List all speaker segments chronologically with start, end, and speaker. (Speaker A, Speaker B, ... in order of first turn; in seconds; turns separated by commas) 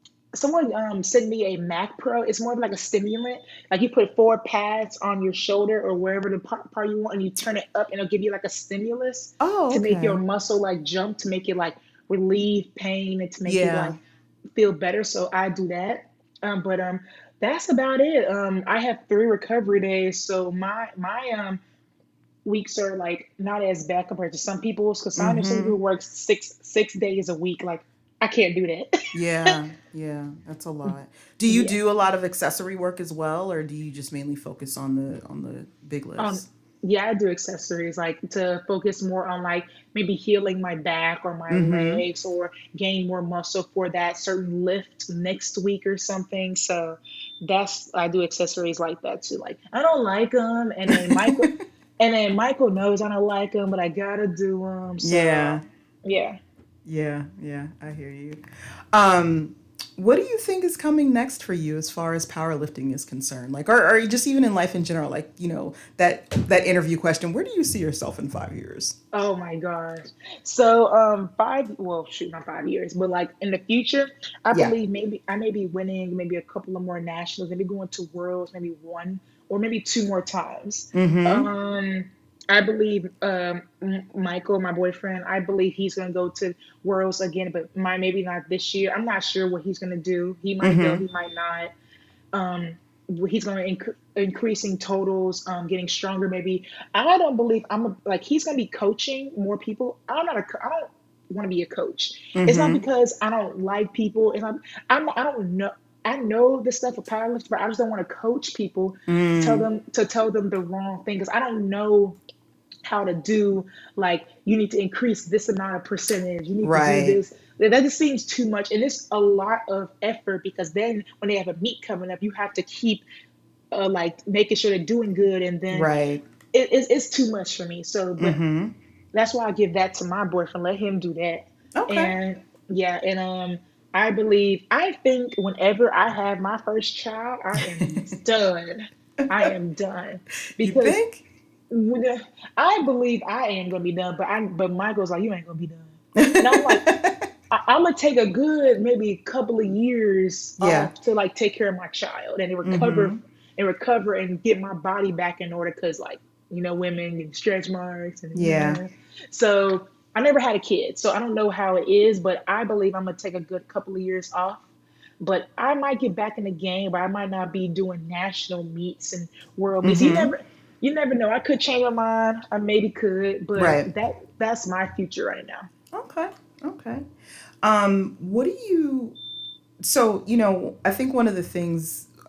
Speaker A: 0.3-14.0, Speaker B: 9.4-10.2, Speaker B: 13.4-14.0, Speaker A: 14.6-21.6, Speaker A: 22.4-29.5, Speaker B: 25.2-25.8, Speaker B: 29.1-36.5, Speaker A: 31.5-31.8, Speaker A: 36.2-56.4, Speaker B: 41.5-42.0, Speaker B: 50.9-51.5, Speaker B: 55.0-55.6, Speaker B: 56.9-69.0, Speaker A: 69.1-91.7, Speaker B: 80.9-81.5, Speaker B: 90.6-91.0, Speaker A: 92.3-112.2, Speaker B: 102.3-102.8, Speaker B: 109.1-109.7, Speaker A: 112.9-123.0, Speaker B: 116.6-117.2, Speaker A: 123.7-125.9, Speaker B: 125.7-126.2, Speaker A: 126.5-128.4, Speaker B: 128.2-128.7, Speaker A: 129.1-141.0, Speaker B: 131.8-132.1, Speaker B: 140.6-141.2, Speaker A: 141.7-146.8, Speaker B: 146.2-147.3, Speaker A: 147.5-164.7, Speaker B: 150.6-150.9, Speaker B: 152.7-153.2, Speaker B: 158.3-158.8, Speaker A: 165.2-175.7, Speaker B: 169.8-170.3, Speaker B: 173.6-173.9, Speaker B: 175.9-177.0, Speaker B: 177.6-179.2, Speaker B: 179.8-182.1